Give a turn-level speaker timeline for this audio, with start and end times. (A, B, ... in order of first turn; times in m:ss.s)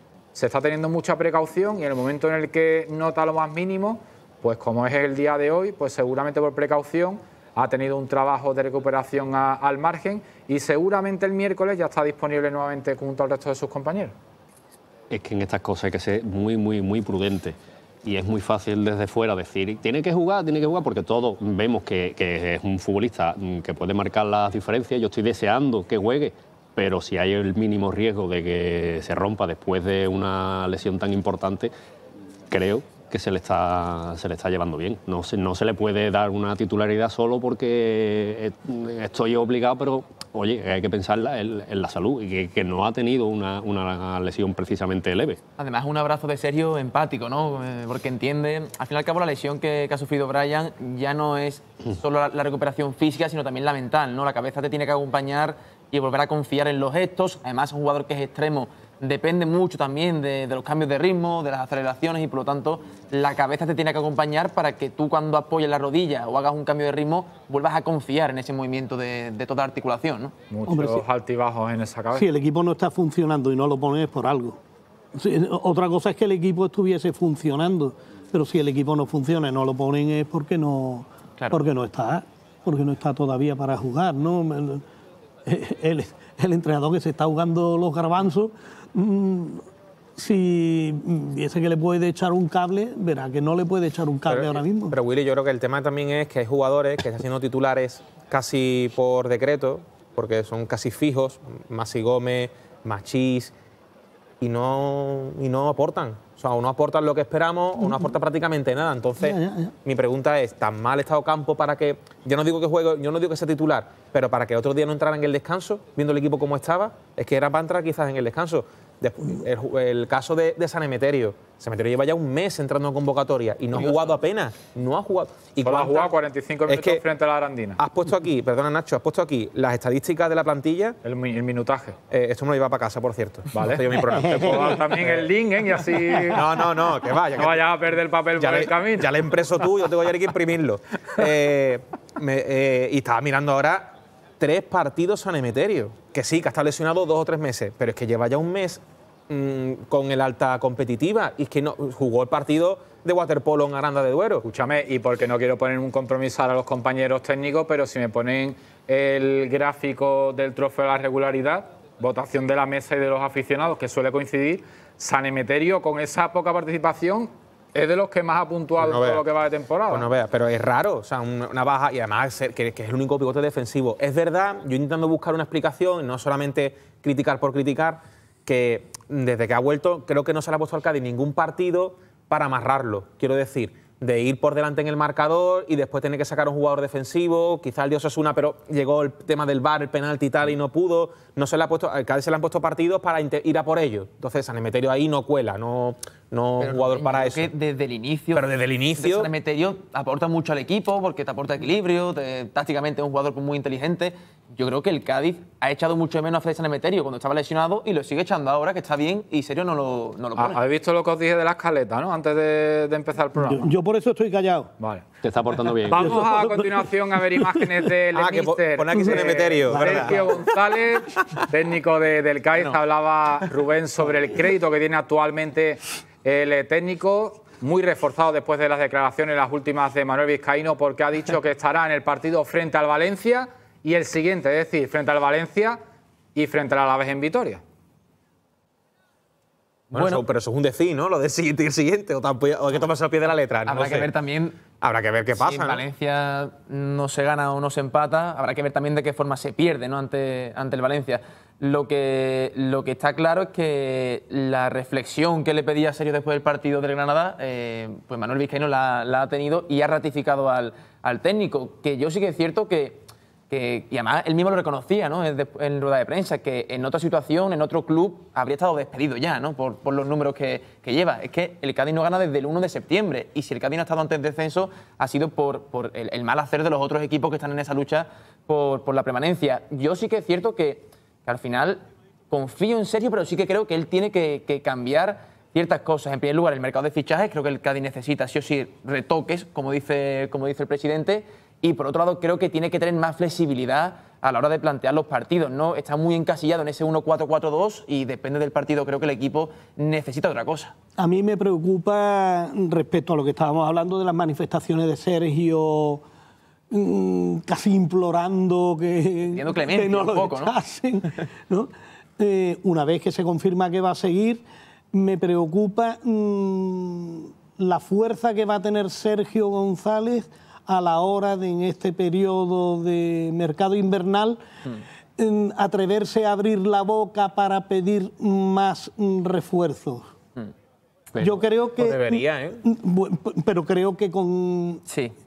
0:00.3-0:14.1 A
0:15.1-0:31.7 B
0:32.5-0:45.4 B
0:45.6-1:10.4 C
1:10.5-1:12.2 A
1:10.7-1:11.0 D
1:12.1-1:14.6 D
1:15.1-1:24.8 D
1:25.5-1:35.0 D
1:34.3-1:43.5 E
1:44.4-2:06.1 E
1:49.2-1:49.7 D
2:05.6-2:07.8 A
2:06.7-2:07.0 E
2:07.8-2:11.0 E
2:11.0-2:12.0 A
2:12.1-2:15.3 E
2:13.5-2:16.6 A
2:16.2-2:17.6 E
2:17.4-2:19.2 A
2:18.4-2:34.4 E
2:34.4-2:50.1 A
2:48.8-2:49.2 E
2:49.9-3:17.5 E
3:16.6-3:30.6 C
3:18.3-3:19.3 E
3:30.4-3:33.7 A
3:33.4-3:34.7 D
3:34.8-3:35.0 A
3:35.2-3:36.3 B
3:35.9-3:55.8 A
3:36.0-3:36.9 D
3:38.1-3:40.2 E
3:38.9-3:40.3 D
3:56.4-3:57.6 A
3:59.9-4:00.2 C
3:59.9-4:04.1 E
4:03.7-4:04.6 C
4:04.8-4:05.8 E
4:05.3-5:00.7 C
5:01.0-5:06.0 D
5:06.7-5:24.4 D
5:09.3-5:10.6 C
5:25.2-5:30.1 D
5:31.2-5:34.8 D
5:31.8-5:32.6 E
5:34.9-5:35.1 C